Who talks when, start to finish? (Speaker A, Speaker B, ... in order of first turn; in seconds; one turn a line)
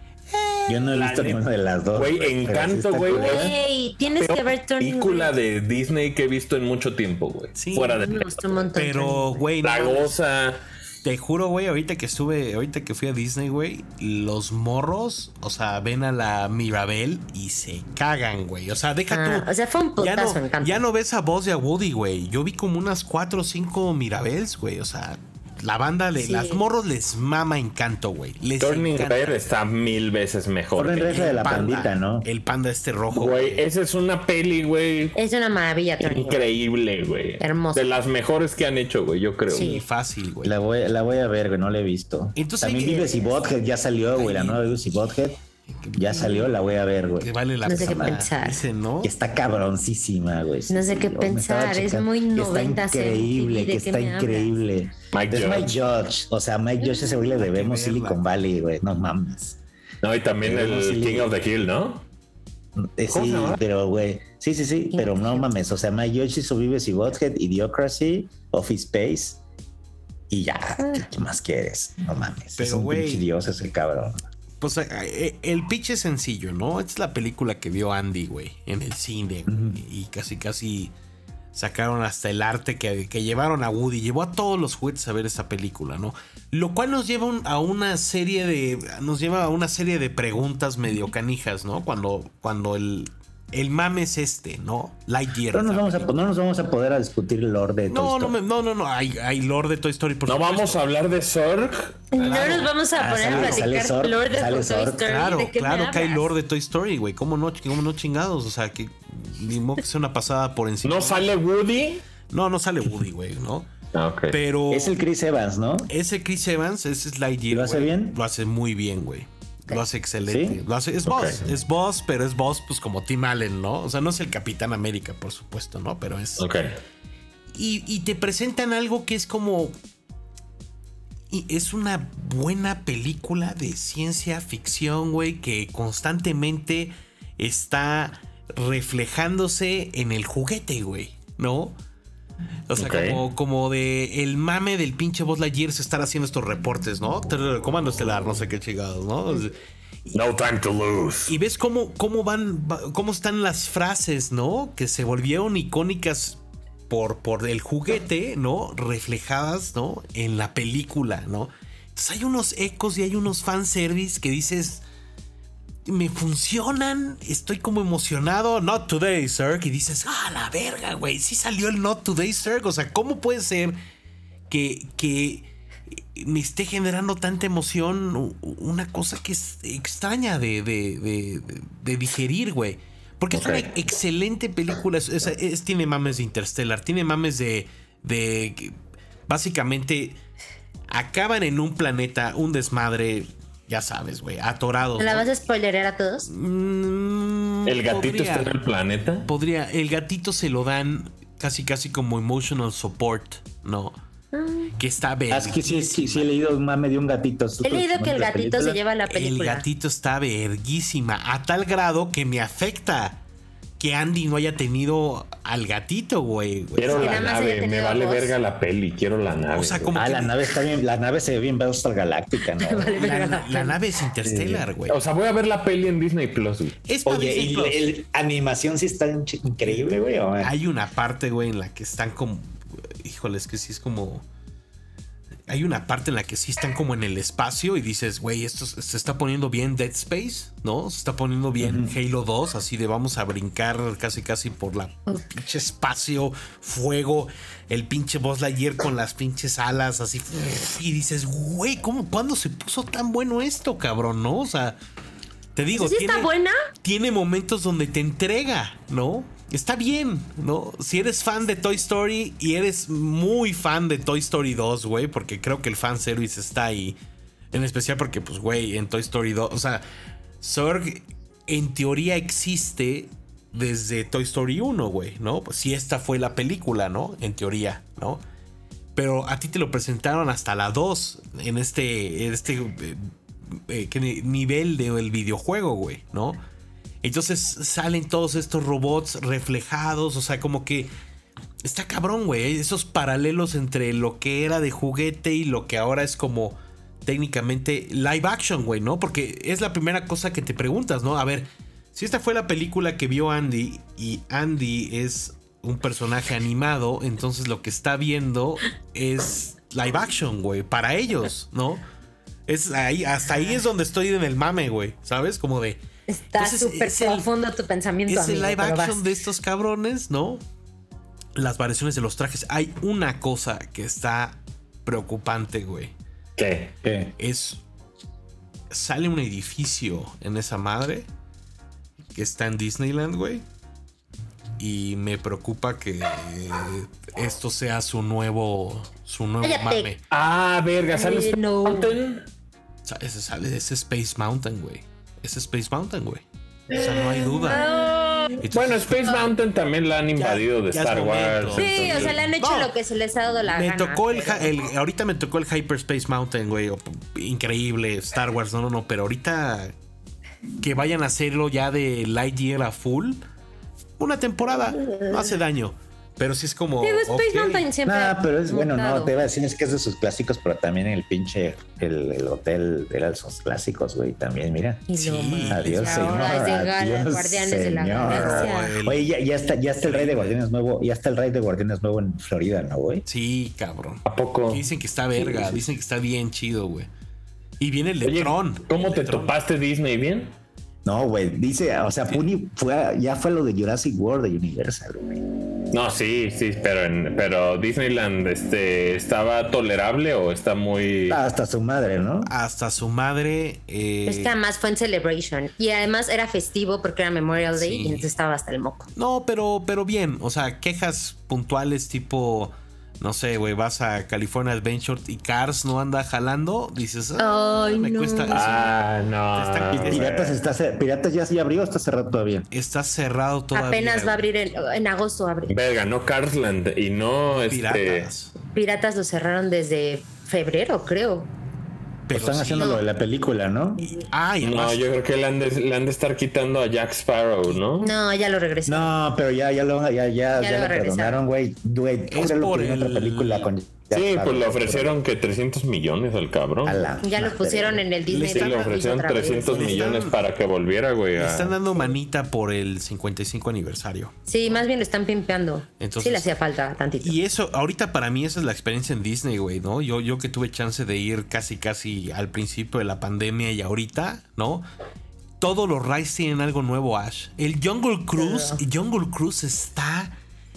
Speaker A: 0.3-1.0
Speaker B: 0.7-3.5
Speaker C: 0.9-1.4
Speaker C: 1.9-3.6
Speaker D: 3.1-5.3
Speaker C: 4.2-8.7
Speaker A: 7.6-8.1
Speaker D: 7.9-9.5
Speaker A: 8.7-10.2
Speaker C: 9.6-10.6
Speaker A: 11.0-29.4
Speaker D: 19.1-20.8
Speaker D: 26.2-26.6
Speaker C: 28.6-31.5
Speaker B: 30.8-32.3
Speaker A: 31.1-33.6
Speaker C: 33.1-35.2
Speaker D: 35.2-36.4
Speaker C: 36.0-39.8
Speaker D: 37.4-37.9
Speaker A: 39.5-40.5
Speaker D: 39.5-39.8
Speaker B: 40.4-45.4
Speaker A: 42.4-43.5
Speaker A: 44.1-44.8
Speaker A: 45.7-46.5
Speaker B: 45.9-48.3
Speaker A: 47.2-49.1
Speaker D: 47.6-48.6
Speaker B: 49.0-59.6
Speaker D: 50.7-54.5
Speaker C: 55.1-55.7
Speaker D: 56.8-57.2
Speaker A: 57.3-58.2
Speaker C: 60.0-62.0
Speaker B: 60.4-61.3
Speaker B: 62.8-69.4
Speaker C: 63.1-63.6
Speaker D: 64.9-65.4
Speaker B: 70.3-74.2
Speaker A: 72.6-73.3
Speaker A: 74.6-80.9
Speaker B: 79.5-79.8
Speaker A: 81.5-96.1
Speaker B: 95.5-98.4
Speaker A: 97.9-100.8
Speaker C: 100.3-102.5
Speaker D: 102.1-106.3
Speaker A: 102.2-103.7
Speaker B: 102.9-105.3
Speaker A: 105.0-111.3
Speaker C: 110.8-112.0
Speaker A: 112.3-113.7
Speaker C: 113.9-114.4
Speaker A: 114.3-115.0
Speaker B: 114.7-115.9
Speaker A: 115.9-126.5
Speaker B: 117.5-118.2
Speaker B: 120.3-120.6
Speaker C: 121.1-121.4
Speaker C: 126.4-126.7
Speaker A: 127.5-129.7
Speaker A: 131.3-141.8
Speaker A: 142.7-149.6
Speaker C: 142.8-143.2
Speaker C: 150.1-151.3
Speaker A: 151.3-164.8
Speaker A: 165.9-173.8
Speaker A: 174.5-188.8
Speaker C: 183.3-183.7
Speaker A: 189.3-190.2
Speaker A: 190.9-195.3
Speaker D: 195.0-196.3
Speaker A: 196.3-198.6
Speaker C: 197.7-199.3
Speaker A: 199.2-204.0
Speaker D: 204.3-204.7
Speaker A: 204.8-206.3
Speaker B: 205.3-208.8
Speaker D: 207.6-209.7
Speaker A: 209.1-213.2
Speaker A: 213.8-217.3
Speaker C: 216.8-219.9
Speaker D: 216.9-218.3
Speaker A: 219.5-220.4
Speaker B: 219.9-223.0
Speaker D: 222.6-223.8
Speaker A: 222.9-225.0
Speaker C: 224.2-226.8
Speaker A: 226.9-228.0
Speaker B: 227.1-230.6
Speaker A: 230.4-234.2
Speaker A: 235.5-254.8
Speaker B: 241.6-241.9
Speaker A: 255.6-267.0
Speaker D: 255.7-256.6
Speaker A: 267.5-269.9
Speaker A: 270.4-278.2
Speaker A: 279.0-286.4
Speaker A: 287.0-290.9
Speaker A: 291.6-311.8
Speaker A: 312.5-315.8
Speaker D: 316.1-319.1
Speaker A: 316.4-317.3
Speaker A: 318.1-320.4
Speaker A: 321.4-325.9
Speaker C: 326.4-326.8
Speaker B: 326.8-327.1
Speaker A: 327.2-327.6
Speaker A: 328.7-331.1
Speaker A: 332.1-333.4
Speaker A: 334.6-340.0
Speaker D: 339.4-339.9
Speaker C: 340.1-342.3
Speaker D: 340.9-341.9
Speaker A: 342.9-347.7
Speaker D: 346.8-348.4
Speaker C: 346.8-352.2
Speaker A: 348.4-349.3
Speaker A: 350.2-352.8
Speaker D: 351.6-354.6
Speaker A: 353.5-359.7
Speaker A: 360.6-363.2
Speaker A: 364.0-367.7
Speaker D: 364.6-365.4
Speaker D: 366.8-369.1
Speaker B: 367.9-374.9
Speaker D: 374.9-378.8
Speaker A: 374.9-376.6
Speaker B: 375.5-383.1
Speaker A: 378.0-379.1
Speaker A: 379.8-380.4
Speaker A: 383.1-386.9
Speaker C: 384.1-384.7
Speaker A: 387.6-389.3
Speaker C: 388.0-390.3
Speaker B: 390.9-395.2
Speaker C: 395.7-401.2
Speaker B: 401.1-402.3
Speaker A: 402.2-404.4
Speaker D: 404.1-408.9
Speaker A: 407.5-408.1
Speaker A: 409.0-418.7
Speaker D: 417.2-418.7
Speaker C: 418.3-420.3
Speaker A: 419.3-420.1
Speaker B: 419.7-422.5
Speaker A: 422.5-424.2
Speaker D: 423.5-425.6
Speaker C: 425.5-428.1
Speaker A: 427.3-428.3
Speaker D: 428.5-431.3
Speaker A: 432.1-432.8
Speaker B: 432.1-434.0
Speaker D: 432.6-432.8
Speaker A: 434.1-434.8
Speaker C: 434.4-437.9
Speaker D: 437.8-438.9
Speaker B: 438.7-445.0
Speaker D: 440.3-441.2
Speaker A: 442.1-443.5
Speaker C: 443.9-446.9
Speaker B: 446.6-447.9
Speaker D: 447.0-449.9
Speaker A: 448.1-448.8
Speaker C: 448.2-451.6
Speaker A: 449.4-450.2
Speaker A: 451.2-454.1
Speaker D: 454.3-457.2
Speaker A: 455.8-456.3
Speaker A: 457.0-464.7
Speaker A: 465.4-470.1
Speaker D: 468.2-468.6